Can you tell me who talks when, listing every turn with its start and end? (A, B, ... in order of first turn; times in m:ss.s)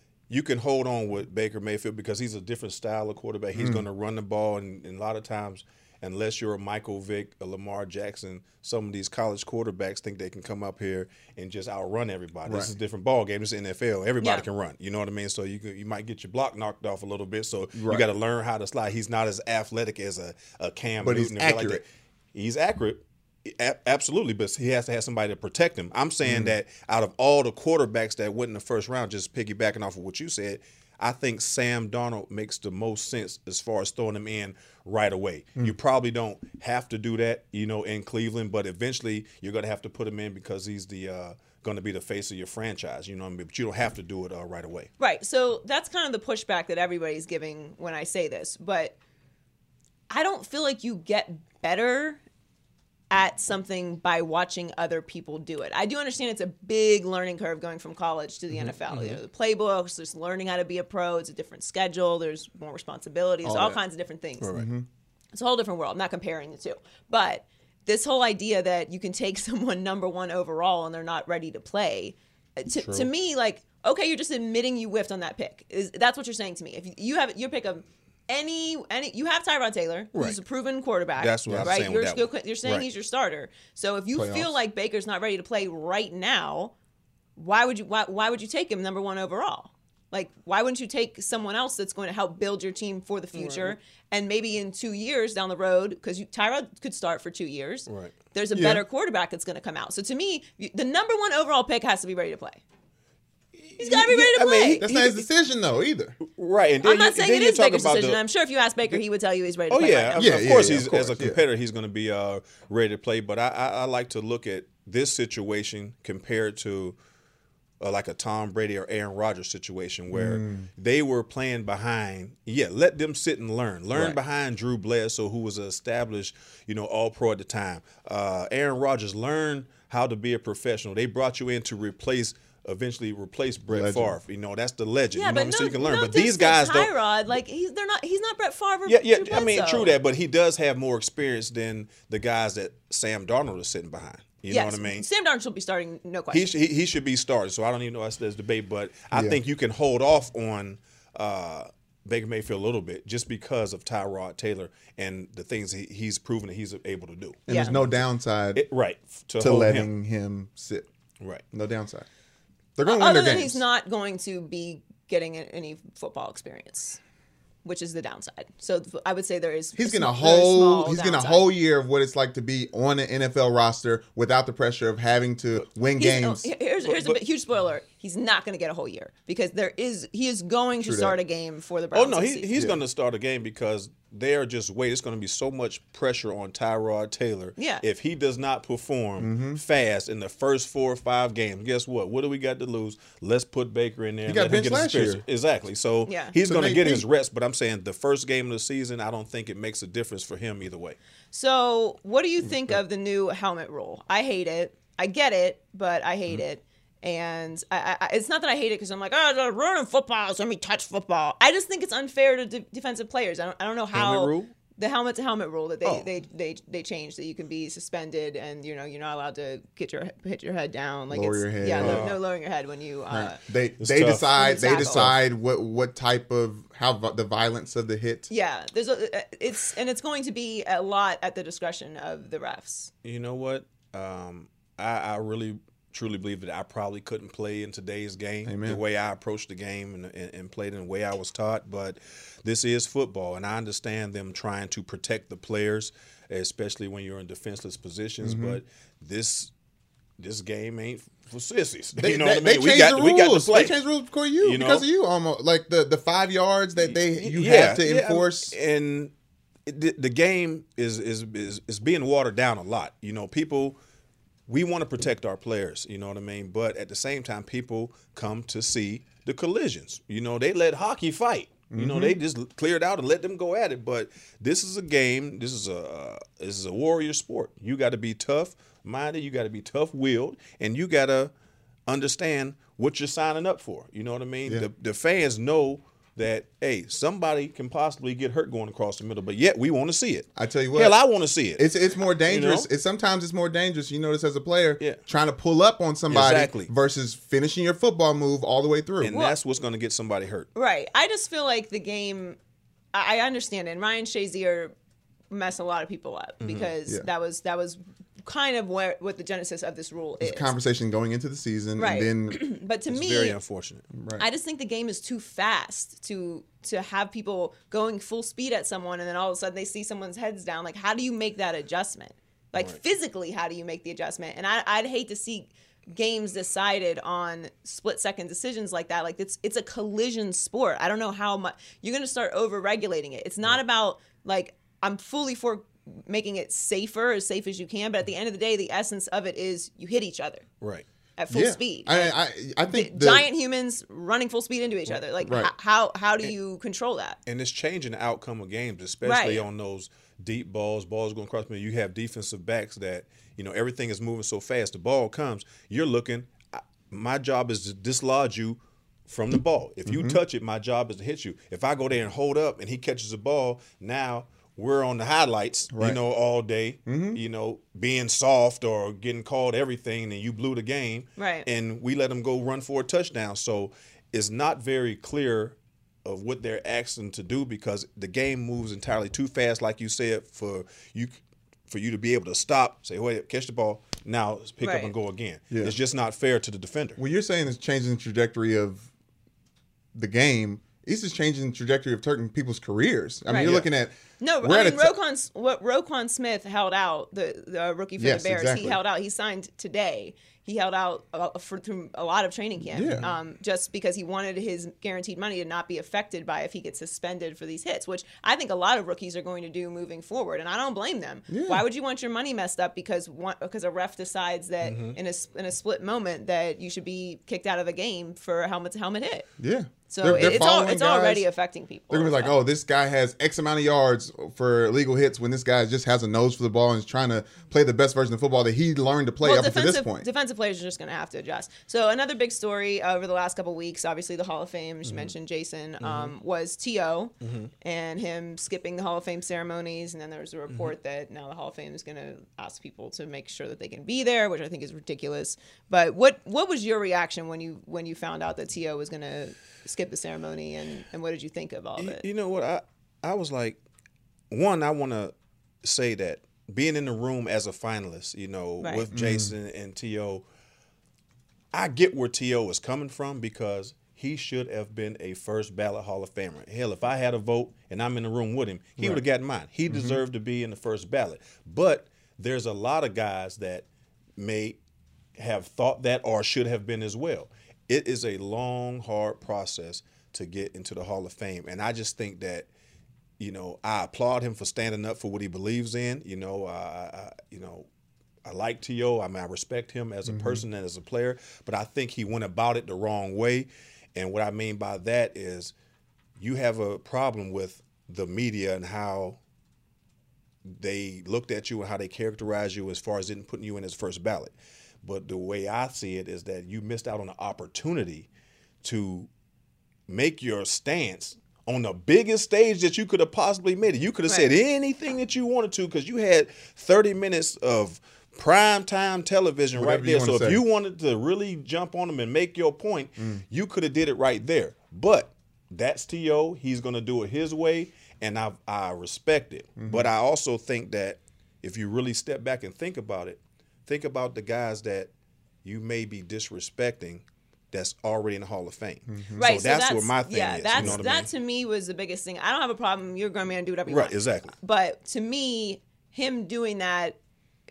0:00.3-0:44.9 A
0:03.6-0:03.8 B
0:12.4-0:12.7 B
0:14.2-0:14.5 C
0:17.8-0:18.1 B
0:21.0-0:21.8 B
0:26.2-0:26.6 B
0:45.0-0:49.0 C
0:50.1-0:52.2 C
0:53.1-1:04.5 C
0:58.7-0:59.2 A
1:03.4-1:03.8 B
1:04.4-1:04.7 A
1:04.5-1:04.9 B
1:05.3-1:26.7 C
1:12.8-1:13.1 A
1:21.2-1:22.9 A
1:21.5-1:21.7 B
1:24.1-1:24.6 B
1:27.4-1:42.6 C
1:33.4-1:33.7 A
1:37.9-1:38.1 A
1:38.5-1:38.8 B
1:43.6-1:45.2 A
1:43.8-1:44.9 C
1:44.8-1:46.2 B
1:46.2-1:48.2 A
1:46.8-1:50.4 C
1:49.7-1:57.0 A
1:50.2-1:51.4 B
1:57.8-2:16.9 A
2:00.1-2:00.7 B
2:03.9-2:04.2 B
2:13.7-2:14.2 B
2:15.1-2:20.0 C
2:18.9-2:25.0 A
2:24.5-2:26.5 C
2:26.3-2:38.0 A
2:29.1-2:29.4 B
2:37.5-2:38.6 B
2:37.5-2:37.8 C
2:38.5-2:39.9 A
2:39.4-2:40.9 B
2:41.5-2:42.1 B
2:42.8-2:43.6 B
2:42.9-2:47.0 C
2:47.6-2:51.5 C
2:49.8-2:56.5 B
2:56.0-3:02.5 C
2:56.8-2:57.2 A
3:00.8-3:01.2 B
3:01.9-3:21.0 A
3:02.5-3:02.8 B
3:07.6-3:07.8 C
3:09.2-3:09.6 B
3:14.3-3:15.2 B
3:16.1-3:16.3 C
3:16.4-3:17.1 B
3:21.3-3:43.4 C
3:33.9-3:34.5 A
3:35.8-3:36.1 A
3:41.1-3:42.1 B
3:41.8-3:42.2 A
3:43.1-3:48.3 B
3:43.8-3:45.2 A
3:44.4-3:45.1 C
3:48.3-3:52.9 C
3:53.0-4:09.5 A
3:58.5-3:58.8 B
4:08.2-4:08.6 B
4:10.2-4:13.8 A
4:12.0-4:18.5 B
4:14.4-4:14.8 A
4:16.9-4:19.1 A
4:19.7-4:23.8 A
4:24.5-4:41.3 A
4:31.7-4:32.2 B
4:41.9-4:51.7 A
4:50.4-4:51.0 B
4:51.6-4:59.2 B
4:52.3-4:52.7 A
4:56.1-4:56.7 A
4:59.0-5:00.5 A
5:00.6-5:02.4 C
5:02.9-5:04.7 C
5:05.3-5:10.5 C
5:06.4-5:06.7 A
5:10.2-5:12.4 B
5:11.8-5:13.4 C
5:12.9-5:13.9 A
5:13.9-5:14.2 B
5:14.2-5:40.4 C
5:41.2-5:42.2 C
5:41.3-5:43.3 B
5:42.7-5:47.2 C
5:45.2-5:45.5 B
5:47.3-6:27.0 A
5:49.0-5:49.4 C
5:59.9-6:00.2 B
6:05.7-6:06.0 B
6:06.9-6:07.2 B
6:11.2-6:11.5 C
6:24.6-6:24.9 C
6:25.5-6:25.8 B
6:27.0-6:28.9 B
6:29.9-6:35.0 B
6:33.3-6:33.5 C
6:33.3-6:33.7 A
6:34.2-6:59.3 C
6:38.0-6:38.8 B
6:42.7-6:43.1 B
6:51.3-6:51.6 B
6:54.6-6:55.0 A
6:59.4-7:01.3 B
6:59.9-7:02.3 C
7:01.9-7:10.1 B
7:09.2-7:32.0 C
7:14.9-7:15.1 A
7:15.8-7:16.1 A
7:17.2-7:17.5 A
7:20.5-7:20.8 A
7:31.8-7:33.6 A
7:34.3-7:35.1 A
7:35.6-7:40.2 A
7:38.6-7:38.9 C
7:38.9-7:39.3 B
7:41.5-7:53.7 A
7:49.7-7:50.0 B
7:54.2-7:54.6 A
7:55.2-8:02.5 A
8:03.2-8:07.7 A
8:08.2-8:15.5 A
8:10.1-8:10.4 B
8:16.2-8:19.2 A
8:20.5-8:28.1 A
8:28.6-8:29.1 A
8:29.9-8:54.9 A
8:34.1-8:34.3 C
8:39.5-8:40.4 B
8:43.0-8:43.2 B
8:49.6-8:49.9 B
8:55.4-9:01.1 A
8:58.9-8:59.3 B
8:59.2-9:07.0 C
9:00.6-9:00.8 B
9:03.7-9:04.3 A